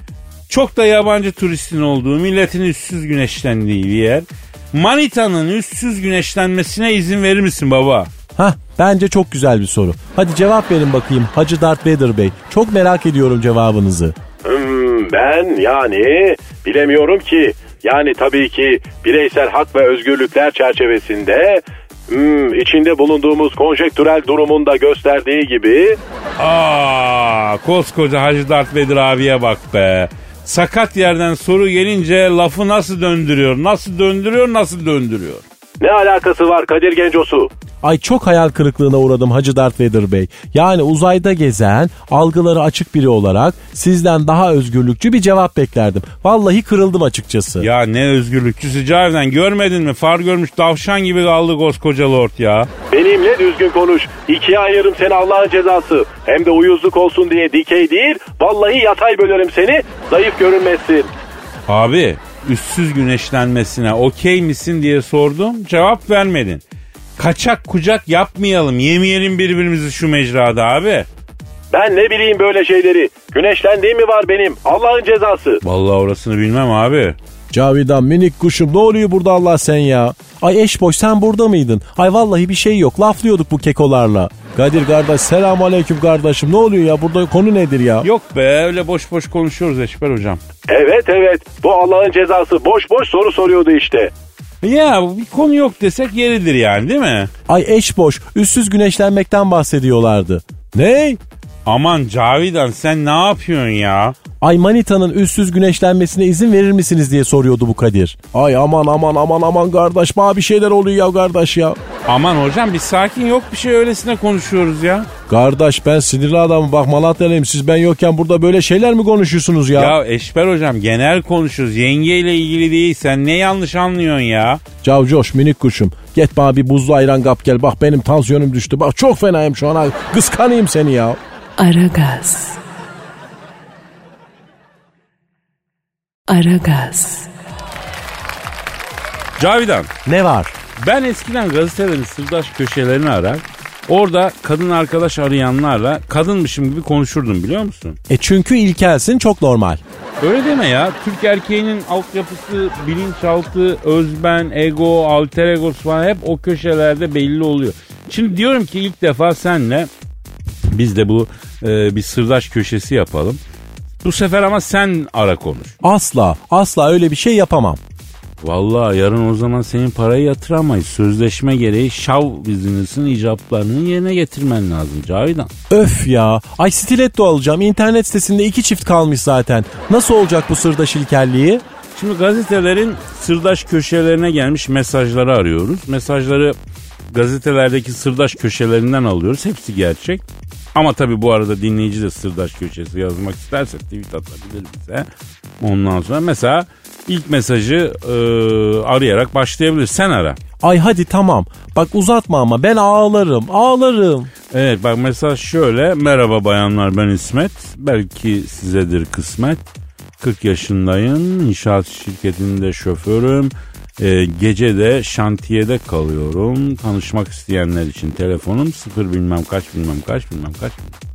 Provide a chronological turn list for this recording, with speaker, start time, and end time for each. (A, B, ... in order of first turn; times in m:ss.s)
0:00.5-0:08.1 A
0:08.4-0:14.2 B
0:14.4-0:26.0 C
0:26.4-0:35.4 A
0:35.8-0:37.5 C
0:37.8-0:47.7 B
0:47.6-0:52.7 A
0:52.9-1:01.1 C
1:01.7-1:06.6 A
1:07.2-1:11.1 A
1:11.7-1:15.6 C
1:15.6-1:17.2 A
1:17.5-1:28.1 B
1:28.0-1:30.4 A
1:30.7-1:34.1 C
1:34.6-1:37.3 A
1:37.5-1:41.2 B
1:41.7-1:44.2 A
1:44.4-1:51.8 B
1:52.1-1:55.1 A
1:55.3-2:00.0 B
1:59.8-2:04.6 A
2:04.8-2:11.2 B
2:11.6-2:12.6 D
2:16.3-2:17.3 D
2:19.4-2:19.9 A
2:20.1-2:20.5 B
2:20.8-2:28.0 A
2:28.1-2:29.8 B
2:30.2-2:39.9 A
2:40.7-2:43.4 A
2:44.0-2:45.8 A
2:45.8-2:47.8 B
2:48.4-2:55.5 A
2:55.7-3:01.6 B
3:02.0-3:06.6 A
3:07.1-3:15.1 A
3:15.6-3:20.4 A
3:20.6-3:24.3 B
3:24.5-3:29.6 A
3:30.2-3:41.0 A